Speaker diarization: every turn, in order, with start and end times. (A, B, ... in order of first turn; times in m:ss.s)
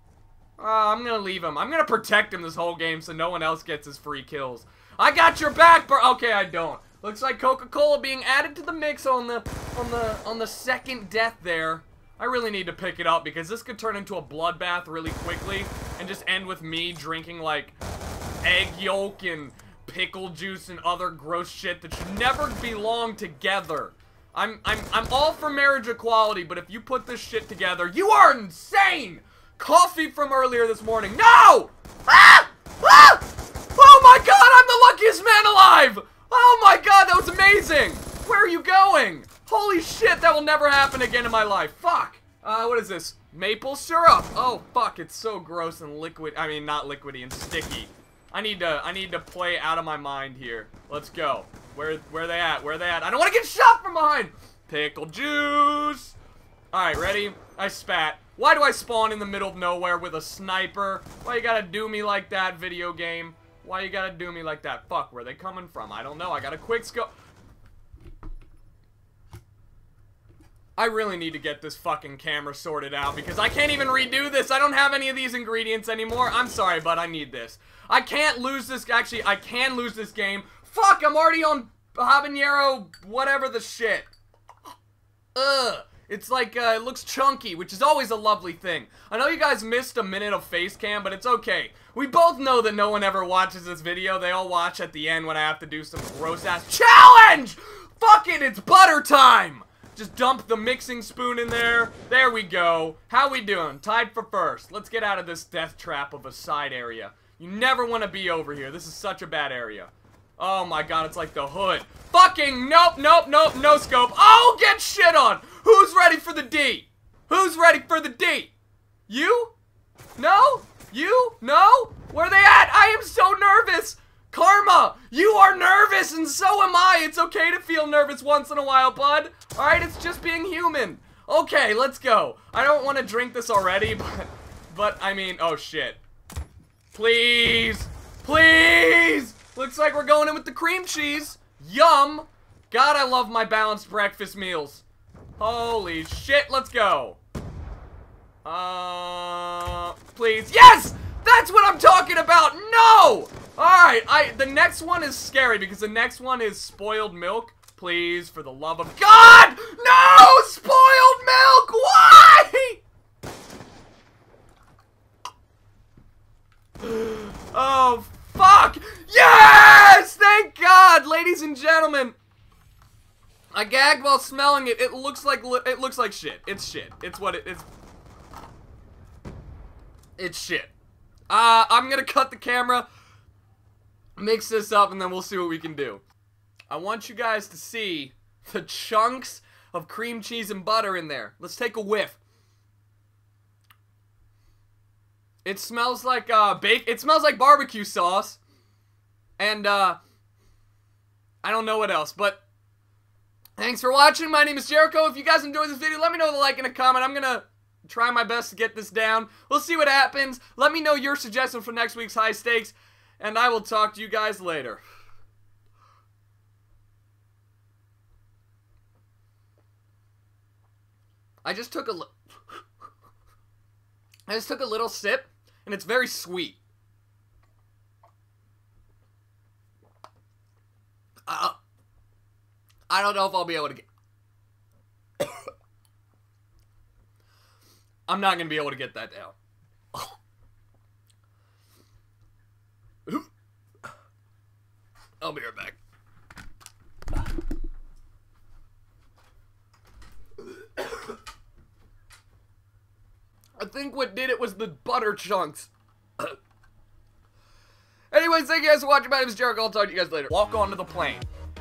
0:00.6-0:17.8 A
0:18.4-0:56.2 A
0:56.7-1:07.1 A
1:10.8-1:24.1 A
1:25.4-1:58.5 A
1:59.1-1:59.5 A
2:00.2-2:16.0 A
2:16.9-2:24.8 A
2:25.4-2:27.2 A
2:28.4-2:42.8 A
2:46.8-2:52.2 A
2:53.5-2:57.7 A
3:00.2-3:00.7 A
3:01.3-3:02.9 A
3:04.2-3:06.0 A
3:06.7-3:12.2 A
3:15.4-3:18.4 A
3:19.4-3:20.0 A
3:21.4-3:22.4 A
3:23.6-3:34.8 A
3:41.4-3:42.1 A
3:44.3-3:46.6 A
3:51.3-3:51.6 A
3:52.9-3:53.9 A
3:58.1-3:59.4 A
4:05.2-4:05.8 A
4:13.6-4:16.4 A
4:18.1-4:21.3 A